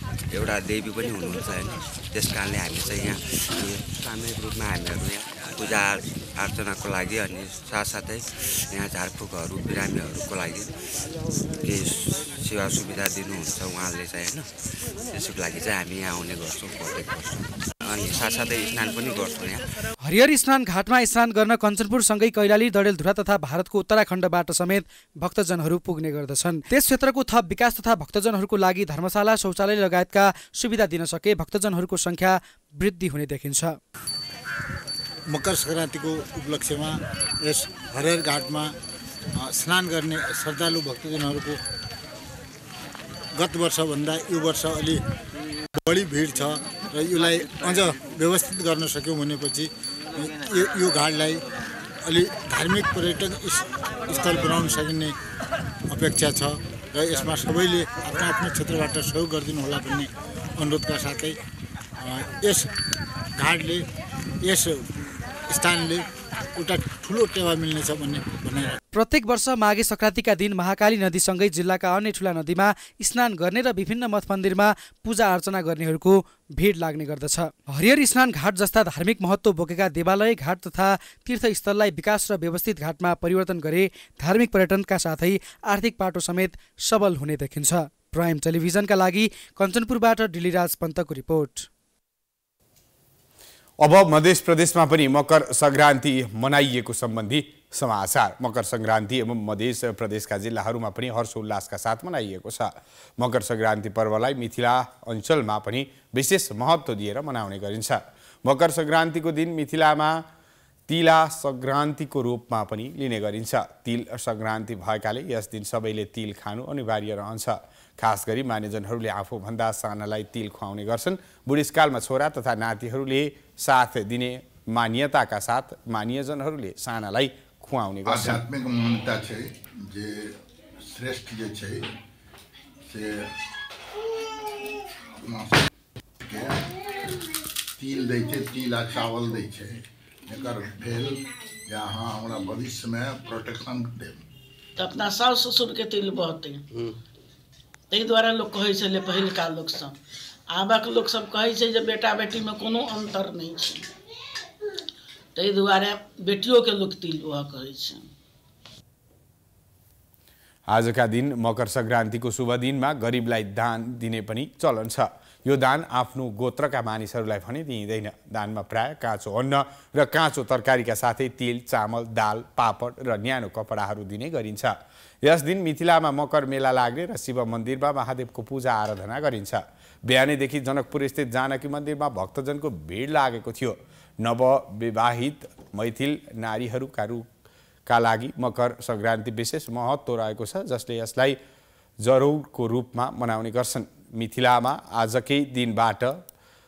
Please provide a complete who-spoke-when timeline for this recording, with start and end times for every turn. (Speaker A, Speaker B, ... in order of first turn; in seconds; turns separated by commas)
Speaker A: 0.3-10.7, Speaker A: 11.6-14.5, Speaker A: 15.1-19.6, Speaker B: 20.0-33.8, Speaker C: 35.3-38.8, Speaker C: 39.4-41.6, Speaker C: 43.3-45.0, Speaker C: 45.8-51.4, Speaker C: 52.0-55.1, Speaker C: 55.9-61.4, Speaker C: 62.0-62.7, Speaker C: 63.4-63.9, Speaker C: 64.4-64.9, Speaker C: 65.5-68.8, Speaker B: 68.9-91.7, Speaker D: 93.8-110.2, Speaker D: 110.9-128.4, Speaker E: 128.1-130.3, Speaker E: 130.9-131.9, Speaker E: 132.9-133.3, Speaker E: 135.2-135.6, Speaker E: 136.2-136.7, Speaker E: 137.8-144.2, Speaker F: 144.8-146.4, Speaker F: 147.9-149.9, Speaker F: 150.6-153.4, Speaker F: 155.4-157.9, Speaker D: 160.7-187.3, Speaker D: 187.9-191.4, Speaker D: 192.0-196.2